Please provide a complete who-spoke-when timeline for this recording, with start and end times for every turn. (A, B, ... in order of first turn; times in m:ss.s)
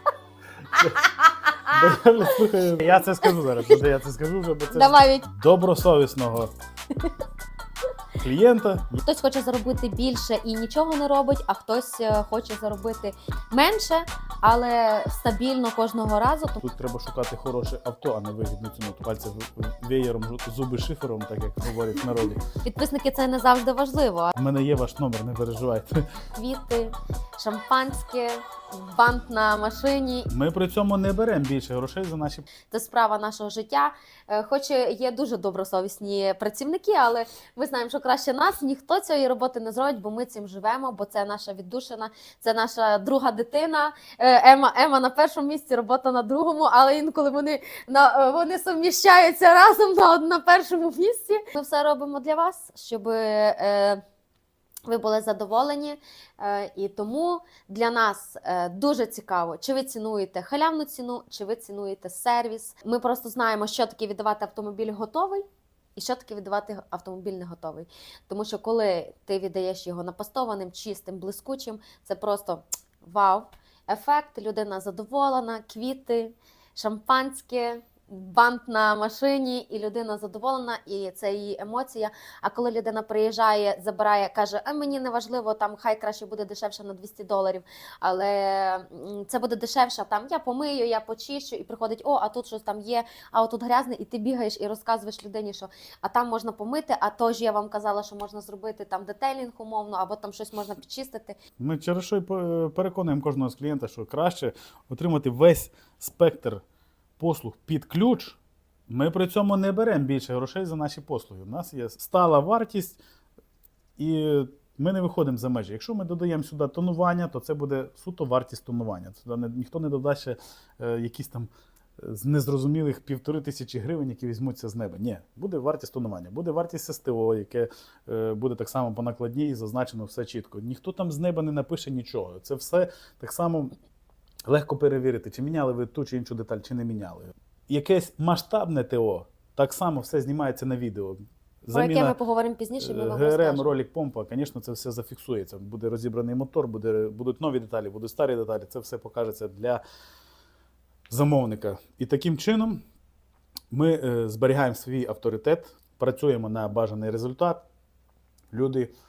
0:00.7-0:02.4 A
0:01.7-0:06.5 B
0:03.0-0:03.8 A
0:04.7-0:05.2 A
0:08.2-0:09.0 B
0:09.0-0:16.6 A
0:16.6-0:22.4 B
0:22.5-0:24.3 A
0:24.3-0:26.0 B
0:26.3-0:30.3 A
0:30.3-0:32.5 B
0:32.7-0:54.0 A
0:54.9-1:05.4 A
1:06.0-1:41.4 A
1:41.6-1:46.6 B
1:47.2-1:53.0 B
1:54.0-2:13.7 B
2:14.5-2:22.1 B
2:21.7-2:23.7 A
2:22.8-2:29.8 B
2:31.1-2:32.8 B
2:33.7-2:37.6 B
2:38.5-2:38.9 B